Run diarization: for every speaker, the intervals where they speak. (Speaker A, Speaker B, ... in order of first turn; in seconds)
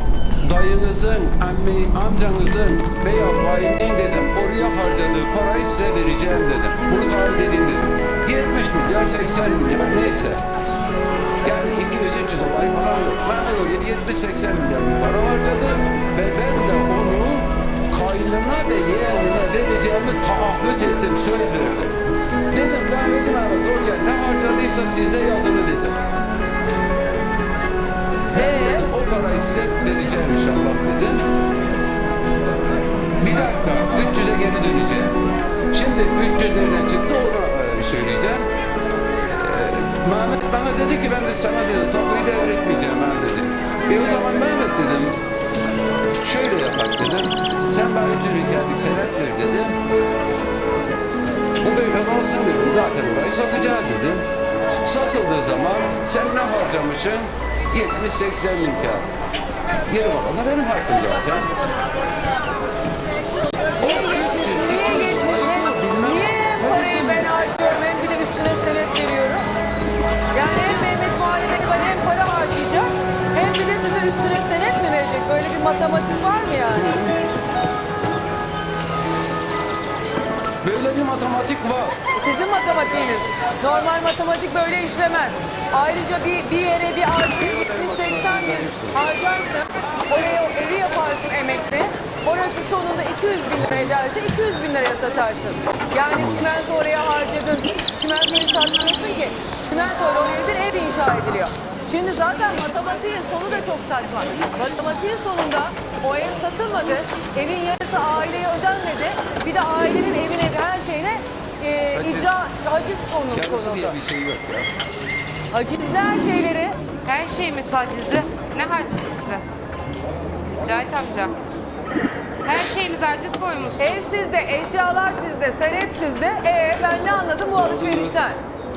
Speaker A: 0.4-10.4, 11.4-22.0, 22.5-26.0, 28.3-31.3, 33.2-35.2, 35.7-38.5, 39.3-45.2, 46.2-49.8, 51.6-54.3, 54.8-59.1, 59.9-61.5, 63.8-67.3, 76.7-77.2, 80.6-82.0, 87.3-89.1, 93.6-93.9, 96.1-96.5, 111.9-112.3, 113.3-114.7, 127.5-128.2
Speaker B: 28.3-28.9, 63.8-69.5, 70.3-77.0, 82.2-114.0, 115.5-116.8, 123.8-128.4
Speaker C: 117.0-119.4, 120.6-121.3, 122.5-124.0